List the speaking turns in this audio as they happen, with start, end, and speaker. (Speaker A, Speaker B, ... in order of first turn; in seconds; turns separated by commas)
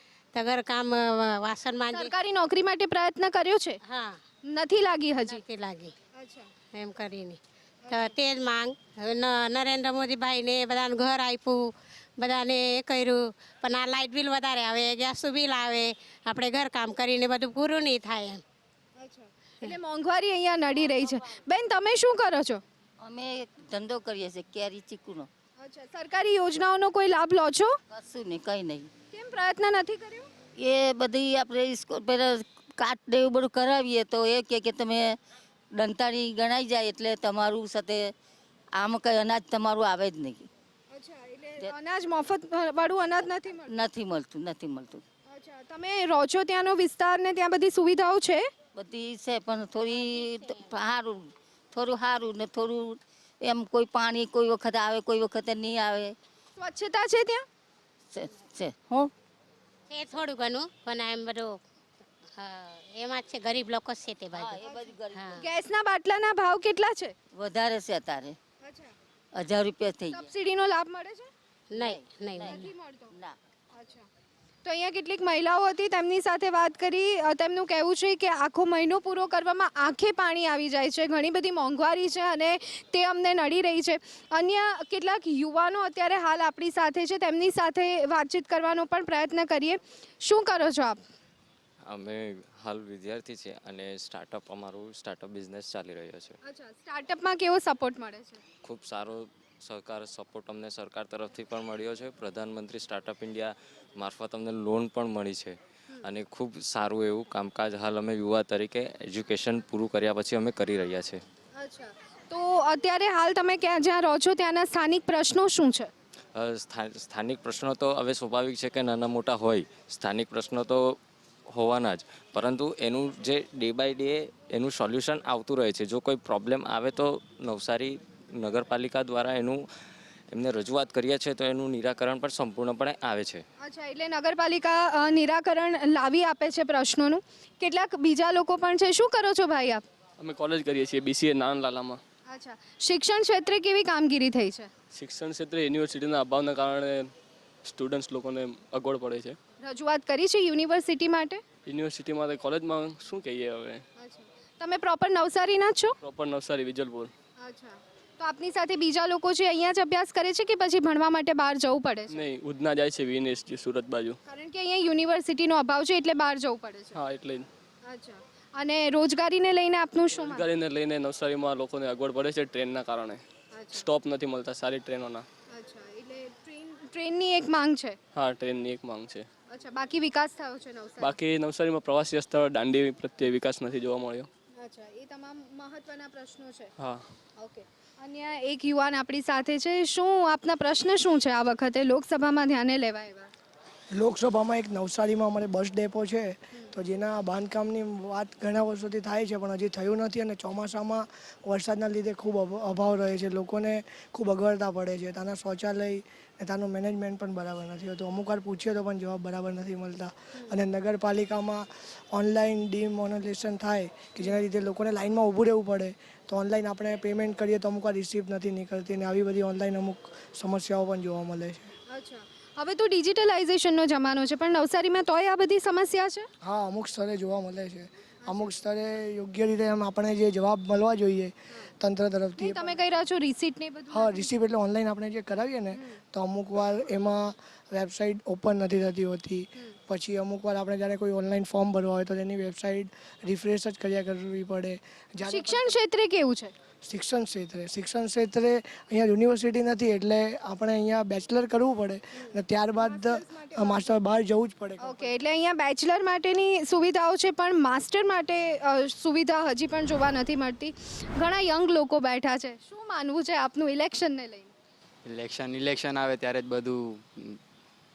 Speaker A: 0.3-2.1, Speaker B: 1.9-3.8, Speaker A: 3.8-4.2, Speaker B: 4.5-5.4, Speaker A: 5.2-5.9, Speaker B: 6.2-6.5, Speaker A: 6.7-18.4, Speaker B: 19.0-22.6, Speaker C: 23.0-25.3, Speaker B: 25.6-27.8, Speaker C: 27.9-28.9, Speaker B: 29.1-30.3, Speaker C: 30.6-35.2, Speaker C: 35.8-38.1, Speaker C: 38.8-40.5, Speaker B: 40.9-43.7, Speaker C: 43.7-45.0, Speaker B: 45.3-48.5, Speaker C: 48.7-56.1, Speaker B: 56.6-57.5, Speaker C: 58.1-59.1, Speaker A: 59.9-61.6, Speaker A: 62.4-65.4, Speaker C: 64.3-65.3, Speaker B: 65.4-67.1, Speaker C: 67.3-68.3, Speaker B: 68.6-68.9, Speaker C: 69.3-70.3, Speaker B: 70.1-71.3, Speaker A: 71.7-72.6, Speaker C: 71.8-73.3, Speaker B: 72.5-73.1, Speaker B: 73.7-74.0, Speaker B: 74.6-91.0, Speaker D: 91.8-96.4, Speaker B: 96.4-98.4, Speaker D: 98.6-111.2, Speaker B: 111.5-115.9, Speaker D: 116.3-129.7, Speaker D: 130.3-133.4, Speaker B: 133.6-139.8, Speaker E: 140.2-142.0, Speaker B: 142.3-144.7, Speaker E: 144.9-147.1, Speaker E: 147.6-149.4, Speaker B: 149.6-151.4, Speaker E: 151.7-153.8, Speaker B: 154.0-155.9, Speaker E: 156.0-157.1, Speaker B: 157.4-162.2, Speaker E: 162.1-164.2, Speaker B: 164.2-167.0, Speaker E: 166.9-167.5, Speaker B: 167.8-170.5, Speaker E: 170.2-175.2, Speaker B: 173.5-173.8, Speaker B: 175.5-178.0, Speaker E: 178.1-179.3, Speaker B: 179.5-181.2, Speaker E: 181.0-184.3, Speaker B: 184.6-186.7, Speaker E: 186.8-187.0, Speaker B: 187.4-193.3, Speaker F: 193.9-221.7, Speaker B: 221.9-226.3, Speaker F: 226.4-232.7, Speaker B: 228.2-228.5, Speaker B: 232.4-234.3, Speaker F: 233.9-245.7, Speaker B: 245.2-246.5, Speaker F: 246.8-255.1, Speaker B: 252.2-253.9, Speaker B: 254.8-264.5, Speaker G: 265.1-267.4